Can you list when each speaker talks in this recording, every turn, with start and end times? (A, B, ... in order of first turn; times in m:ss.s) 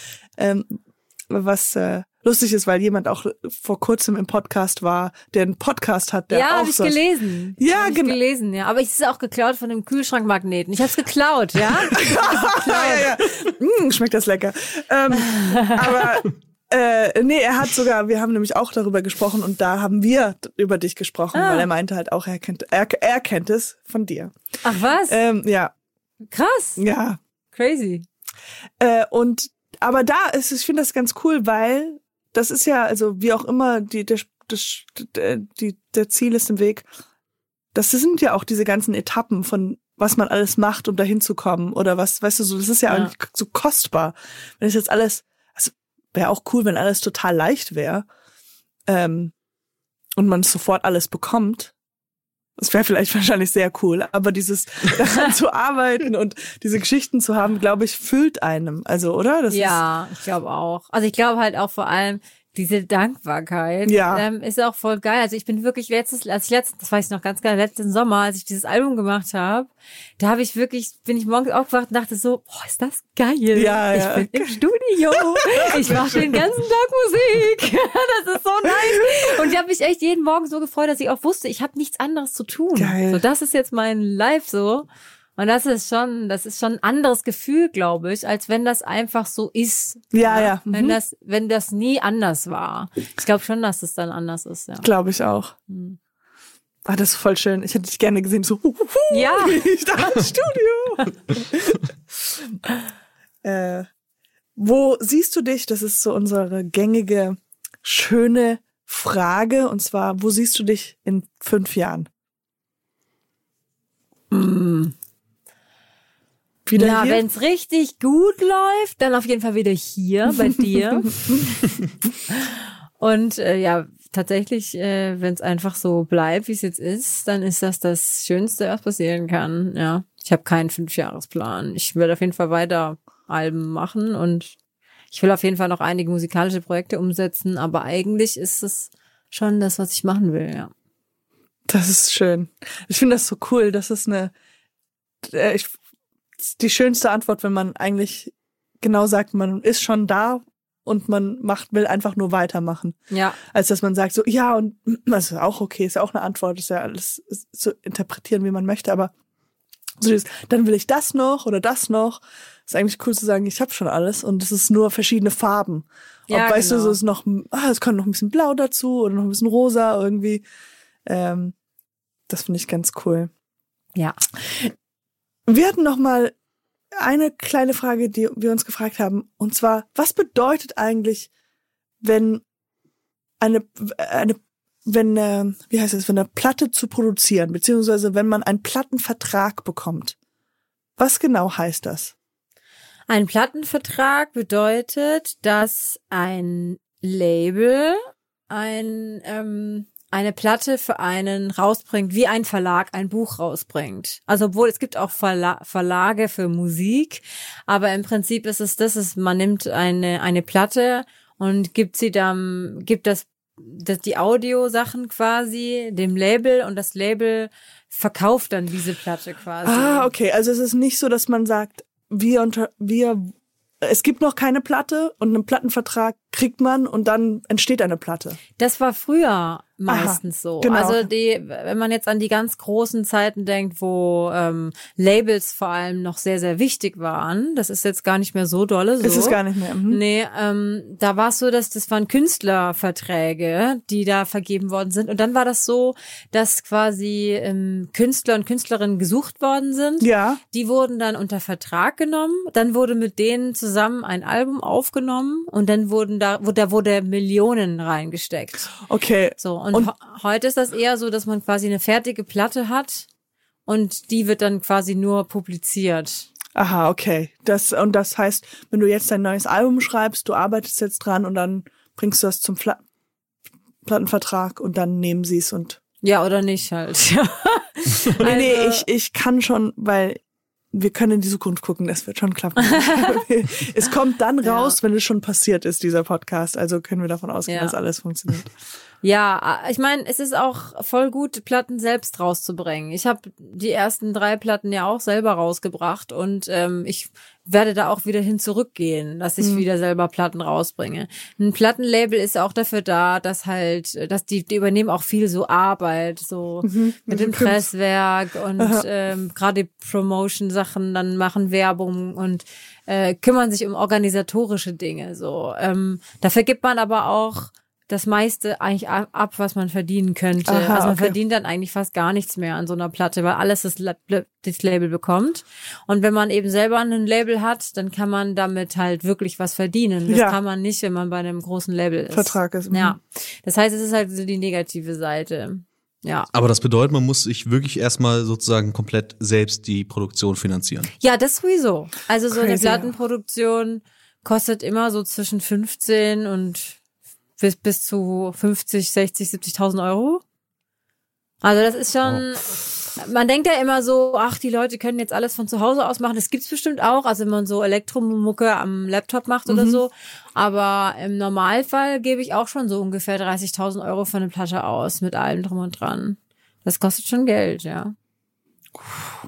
0:00.4-0:07.0 A
0:06.3-0:13.2 B
0:07.6-0:08.2 A
0:11.9-0:24.3 A
0:15.2-0:16.0 B
0:21.3-0:21.7 B
0:24.6-0:25.2 B
0:25.1-0:25.7 A
0:26.3-0:26.8 B
0:26.8-0:27.2 A
0:27.5-0:28.0 B
0:28.8-0:36.9 A
0:37.7-0:48.1 A
0:48.9-0:49.3 A
0:50.2-0:51.7 A
0:52.6-0:59.8 A
0:59.5-1:34.9 B
1:03.8-1:04.2 A
1:13.5-1:14.6 A
1:15.1-1:16.4 A
1:18.6-1:19.3 A
1:22.8-1:23.2 A
1:30.1-1:31.0 A
1:34.8-1:35.5 A
1:35.7-1:36.0 B
1:36.8-1:42.6 A
1:39.1-1:39.7 B
1:43.4-1:43.9 A
1:44.6-1:52.1 A
1:54.3-1:54.9 B
1:56.6-1:57.2 A
1:56.7-2:01.6 B
2:02.3-2:14.5 B
2:15.1-2:20.7 B
2:21.7-2:24.3 A
2:25.2-2:25.8 A
2:26.4-2:39.1 A
2:33.1-2:33.4 B
2:40.0-2:50.4 A
2:46.3-2:47.0 B
2:51.0-2:51.5 A
2:52.3-2:53.3 A
2:53.9-2:54.2 B
2:54.4-2:54.7 A
2:55.5-2:56.3 A
2:57.0-3:01.3 A
3:02.0-3:02.4 A
3:03.4-3:10.2 A
3:11.0-3:12.1 A
3:13.1-3:18.0 B
3:18.5-3:40.1 B
3:39.6-3:48.4 A
3:48.6-4:18.7 B
3:49.9-3:51.1 A
3:59.0-4:00.0 A
4:10.0-4:10.4 A
4:18.8-4:19.9 A
4:19.4-4:23.1 B
4:23.6-4:26.3 B
4:26.5-4:32.8 A
4:33.8-4:35.8 A
4:36.0-4:38.8 B
4:38.2-4:40.2 A
4:40.7-4:48.5 A
4:42.7-4:43.2 B
4:44.4-4:44.8 B
4:47.5-4:47.8 B
4:49.0-5:36.3 B
4:59.4-4:59.6 A
5:06.6-5:07.6 A
5:08.6-5:08.9 A
5:20.4-5:21.2 A
5:30.1-5:30.4 A
5:32.1-5:33.0 A
5:36.3-5:40.9 C
5:41.0-5:46.8 B
5:42.3-5:42.9 A
5:47.4-5:50.2 B
5:51.4-6:08.0 B
5:59.5-5:59.8 A
6:08.8-6:09.1 A